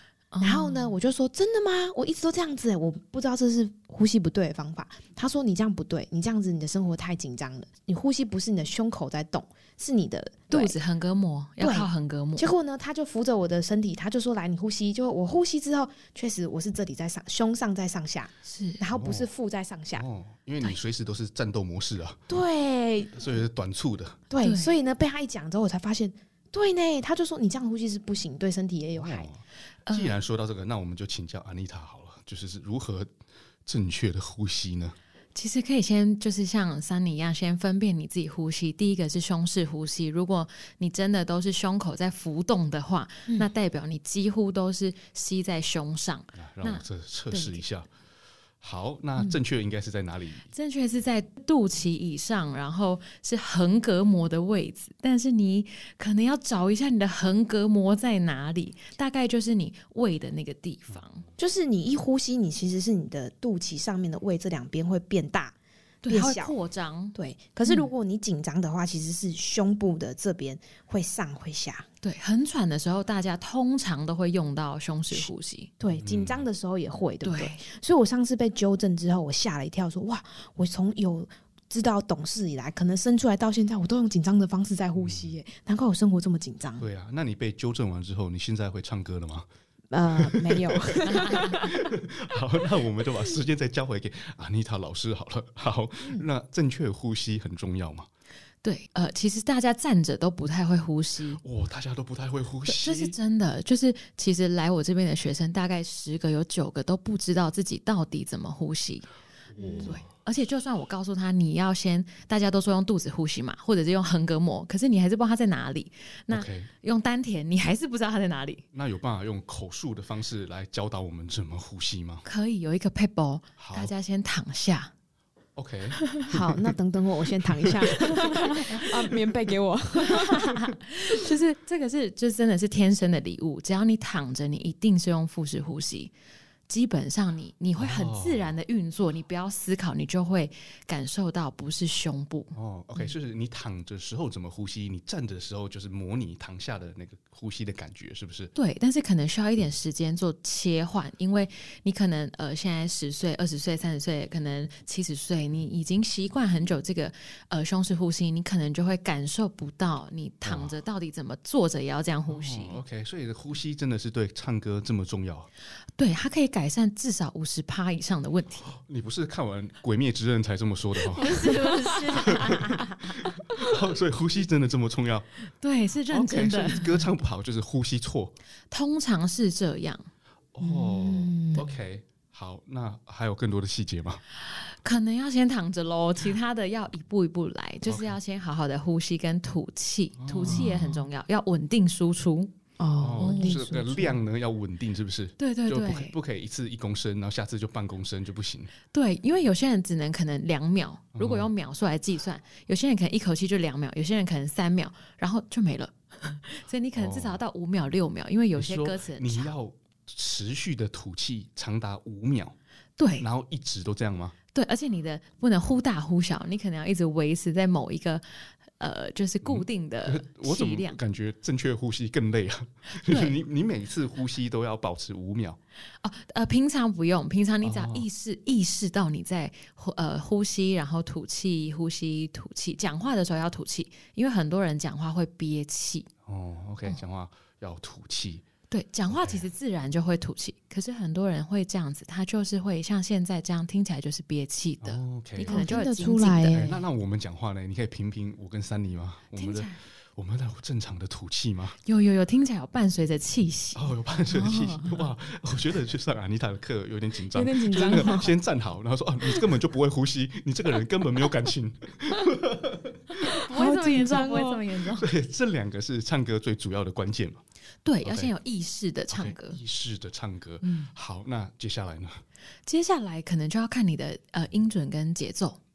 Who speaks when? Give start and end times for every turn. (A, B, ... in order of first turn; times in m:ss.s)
0:00.3-0:00.9 A
0:00.4-0:10.8 B
0:10.5-0:12.5 A
0:11.6-0:20.0 B
0:18.4-0:18.8 A
0:18.9-0:19.3 C
0:19.9-0:22.2 C
0:22.3-0:23.4 B
0:23.1-0:24.2 C
0:24.3-0:29.3 B
0:24.4-0:24.7 A
0:29.0-0:33.1 C
0:29.9-0:30.2 A
0:33.6-0:35.0 C
0:35.3-0:47.6 A
0:46.4-0:47.9 C
0:48.6-0:50.5 C
0:50.5-1:01.2 A
1:01.4-1:05.5 B
1:06.0-1:07.9 A
1:06.1-1:06.5 B
1:07.1-1:11.8 B
1:12.0-1:15.7 A
1:15.1-1:26.8 B
1:15.9-1:16.4 C
1:17.2-1:17.6 A
1:25.0-1:25.3 C
1:26.8-1:29.5 C
1:29.9-1:31.7 B
1:30.2-1:38.1 C
1:31.0-1:31.7 A
1:38.6-1:41.4 A
1:41.4-1:43.2 C
1:42.7-1:49.1 A
1:49.5-1:50.1 C
1:49.6-1:50.0 B
1:49.8-1:58.6 A
1:56.3-1:56.7 C
1:58.7-2:02.2 C
2:02.2-2:04.9 A
2:03.6-2:03.9 C
2:05.6-2:06.5 C
2:06.2-2:10.6 B
2:08.2-2:08.8 A
2:10.0-2:16.1 A
2:16.7-2:22.5 A
2:17.8-2:18.5 C
2:22.5-2:28.5 C
2:28.6-2:42.8 A
2:40.4-2:40.7 C
2:42.3-2:45.5 C
2:46.0-2:48.7 A
2:48.7-2:55.3 C
2:51.1-2:53.3 A
2:55.6-2:57.0 A
2:56.1-2:58.3 C
2:58.7-3:00.1 A
3:00.5-3:04.2 C
3:00.6-3:01.7 B
3:04.8-3:12.5 A
3:07.8-3:08.2 C
3:10.2-3:10.9 C
3:10.4-3:10.9 B
3:12.8-3:14.2 B
3:13.0-3:18.7 C
3:13.2-3:13.6 A
3:15.4-3:16.1 A
3:18.9-3:29.5 A
3:21.1-3:21.5 C
3:26.9-3:27.4 C
3:28.6-3:32.6 C
3:33.0-3:33.2 A
3:33.2-3:34.4 C
3:34.5-3:38.2 A
3:38.8-3:41.0 A
3:39.4-3:45.6 C
3:43.0-3:43.4 A
3:46.0-3:56.1 A
3:47.6-3:48.0 C
3:56.2-3:58.4 C
3:58.7-4:06.8 A
3:59.1-3:59.5 C
4:04.8-4:05.7 C
4:05.4-4:06.8 B
4:06.4-4:11.8 C
4:09.3-4:09.8 A
4:11.8-4:13.9 A
4:13.7-4:23.1 C
4:14.4-4:15.0 B
4:17.3-4:18.4 B
4:23.3-4:25.1 A
4:23.4-4:24.6 B
4:24.9-4:27.4 C
4:27.8-4:29.6 A
4:28.0-4:28.3 C
4:29.1-4:32.2 C
4:32.6-4:35.6 A